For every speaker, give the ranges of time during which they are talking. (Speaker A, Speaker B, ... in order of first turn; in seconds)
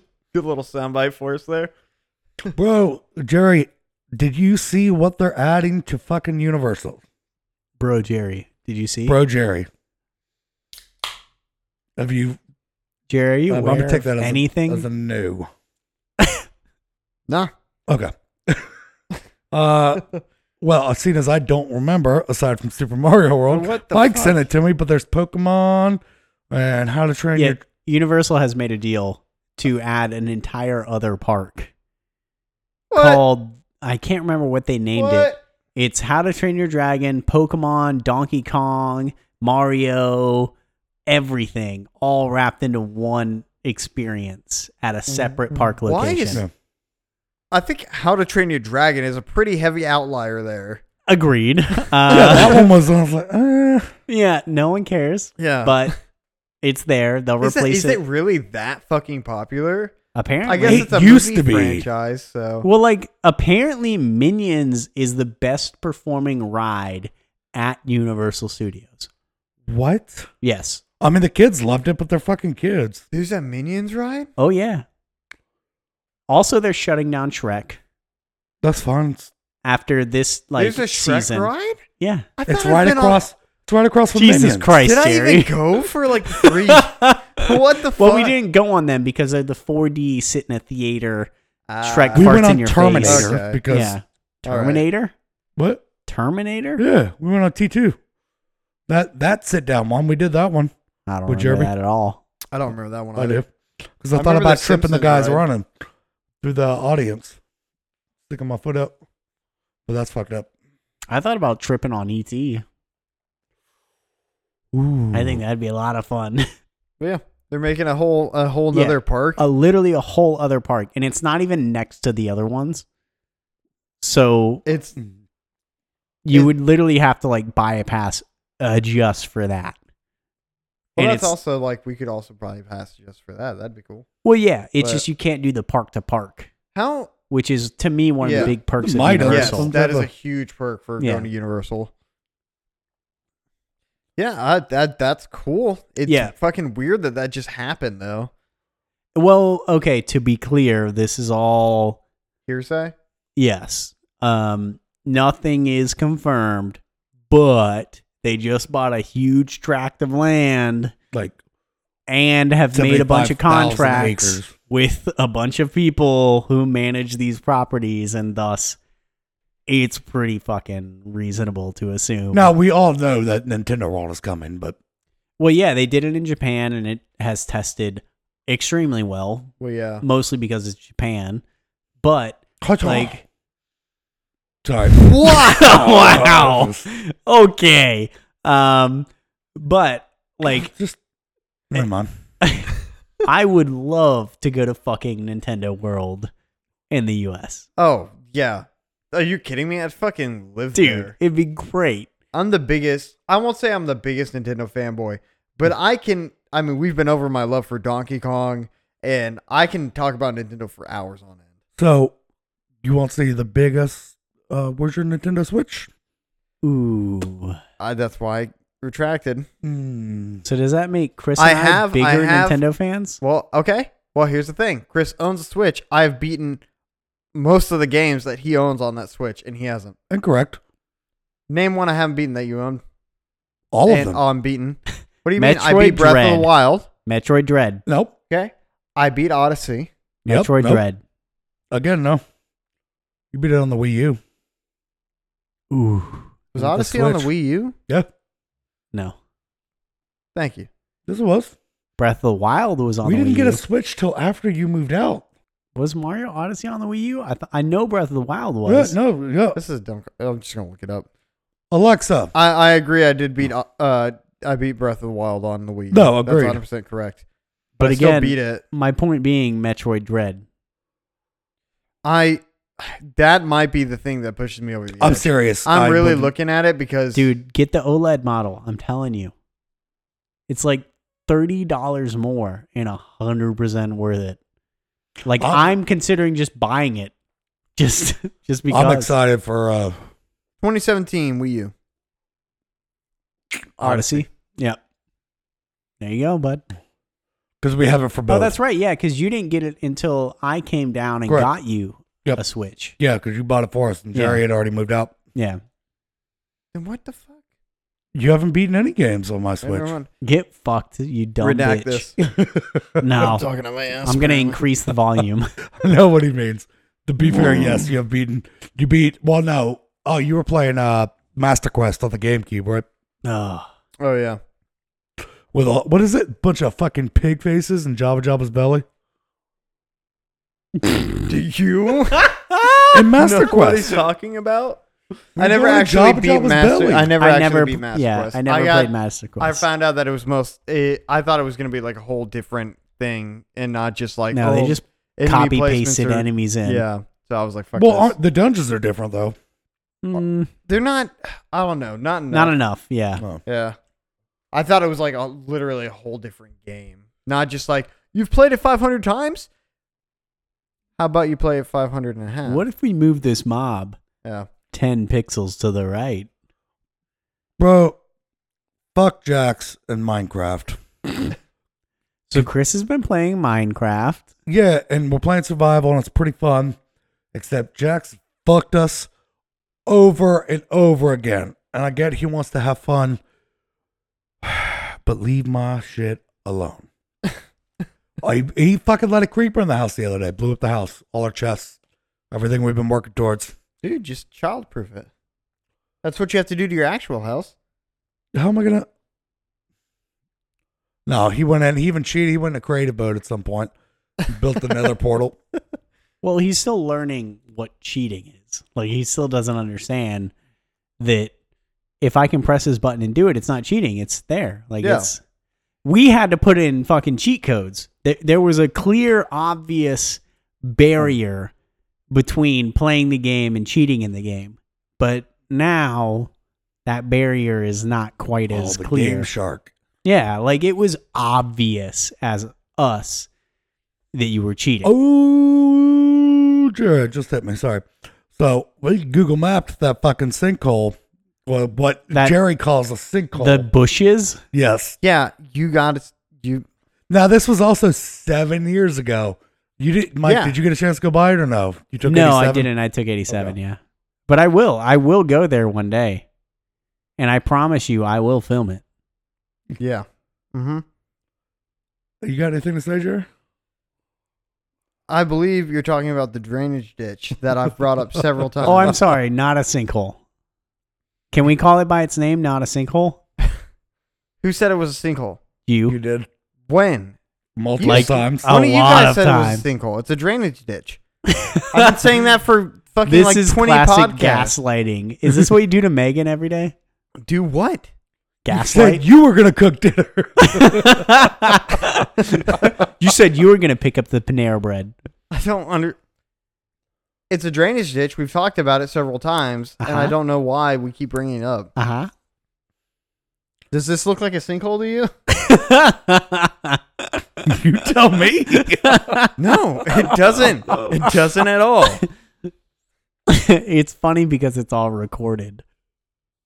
Speaker A: 0.3-1.7, 23.5-24.4, 32.9-33.2, 34.9-35.4, 45.1-46.4, 47.5-50.8, 52.1-52.6, 55.4-55.9, 57.4-62.6, 73.1-74.3, 80.6-81.8, 82.4-83.2, 84.8-88.3, 91.7-92.5, 93.0-93.6, 94.5-94.8, 102.5-103.4, 104.1-105.4, 117.0-119.4, 124.6-125.0, 130.9-134.0, 136.7-137.1, 138.2-138.5, 139.3-141.9, 144.2-148.3, 152.5-152.9, 179.6-180.0, 185.0-185.9, 197.8-201.1, 202.3-211.4, 217.8-219.5, 221.4-222.6, 223.2-226.6, 227.3-229.9, 231.5-232.8, 233.9-236.9, 238.3-239.9, 246.5-247.7, 250.3-250.7, 259.5-261.1, 262.3-267.2, 267.8-268.6, 272.0-277.3, 290.6-291.7, 293.8-294.2, 306.7-307.4, 309.6-310.1, 311.4-312.1, 313.2-314.6, 324.0-324.4, 331.2-332.4, 333.1-334.8, 335.4-348.1, 350.7-352.5, 353.4-353.8, 354.5-359.5, 361.0-362.6, 393.8-395.1, 396.0-397.5, 414.8-415.1, 445.0-446.6, 450.2-450.5, 459.8-460.8, 465.1-469.0, 474.4-475.4, 476.7-477.2, 477.8-481.0, 481.7-484.5, 487.2-487.9, 495.3-495.9, 497.3-501.7, 503.7-505.1, 509.4-512.0
Speaker B: 2.5-7.0, 9.1-9.7, 12.0-12.4, 13.5-15.5, 17.9-18.7, 19.5-20.1, 20.6-27.6, 52.1-53.9, 60.6-61.9, 69.7-70.3, 71.0-73.0, 78.6-79.3, 82.5-84.8, 92.1-94.0, 95.6-95.8, 96.8-98.0, 98.9-100.7, 101.3-101.7, 103.2-103.5, 104.0-105.7, 106.4-107.4, 108.3-109.0, 109.9-110.5, 114.7-115.4, 138.4-140.1, 162.7-164.5, 172.3-174.8, 182.6-183.2, 184.6-186.9, 190.4-191.0, 191.7-192.1, 211.8-212.1, 212.8-215.9, 219.6-220.4, 230.1-230.6, 233.7-234.2, 237.8-238.1, 240.3-240.8, 241.7-242.2, 243.3-244.2, 246.6-247.3, 251.1-251.5, 253.0-255.2, 258.6-259.6, 261.7-262.3, 265.9-266.6, 275.0-276.3, 285.4-285.7, 288.7-290.0, 297.6-298.5, 303.0-305.1, 308.1-309.9, 312.2-313.3, 315.8-322.9, 325.5-328.8, 332.9-333.9, 335.4-337.1, 347.8-349.4, 367.6-368.0, 368.9-370.8, 374.4-376.8, 377.3-379.1, 379.9-383.2, 384.4-386.9, 388.2-391.8, 392.3-393.5, 398.3-398.9, 401.1-403.7, 404.3-405.4, 428.5-429.7, 434.8-443.7, 444.5-444.9, 447.1-452.7, 453.3-453.5, 462.2-463.3, 468.7-469.0, 475.9-476.3, 477.6-478.5, 488.5-491.3, 507.4-509.3
Speaker C: 7.8-9.2, 13.1-14.8, 27.3-31.7, 32.9-40.5, 41.1-46.4, 51.0-52.6, 54.1-55.9, 56.6-58.0, 60.1-60.9, 62.6-69.1, 70.4-70.8, 74.4-74.8, 76.3-77.8, 79.6-82.3, 84.1-85.6, 86.3-91.3, 91.8-95.1, 96.1-96.8, 101.1-102.2, 111.1-112.6, 115.1-116.5, 118.7-122.8, 124.0-124.6, 126.2-129.8, 131.0-131.3, 134.2-136.5, 137.3-139.7, 141.0-141.2, 146.1-146.3, 149.1-152.0, 153.3-160.9, 162.1-168.8, 169.7-172.5, 175.4-179.5, 180.0-181.4, 182.0-183.2, 185.2-190.7, 192.4-192.7, 193.2-196.3, 196.9-197.6, 200.7-202.1, 216.6-217.6, 220.4-223.2, 235.4-236.5, 237.0-237.8, 240.2-241.0, 245.7-246.3, 252.0-253.6, 255.7-258.9, 267.8-270.4, 277.1-279.3, 280.5-284.4, 285.2-287.1, 287.8-289.1, 293.8-294.8, 296.0-296.6, 298.3-302.9, 304.1-304.4, 305.3-305.6, 310.2-312.1, 313.0-313.4, 314.0-315.5, 323.2-323.7, 332.5-332.9, 337.2-339.6, 344.3-346.8, 350.0-350.5, 352.3-353.2, 362.4-364.0, 364.7-366.3, 372.3-374.3, 406.2-410.3, 411.0-411.3, 412.0-415.2, 415.8-421.5, 422.1-426.3, 426.9-429.3, 430.0-433.3, 434.1-434.9, 443.4-444.4, 452.0-456.2, 457.2-458.8, 468.6-470.2, 471.3-473.2, 475.7-476.0, 477.8-479.6, 481.3-481.9, 483.1-486.7, 488.4-489.0, 490.4-494.9, 499.8-500.1, 501.8-502.1, 505.3-506.8, 508.5-509.3, 513.3-515.6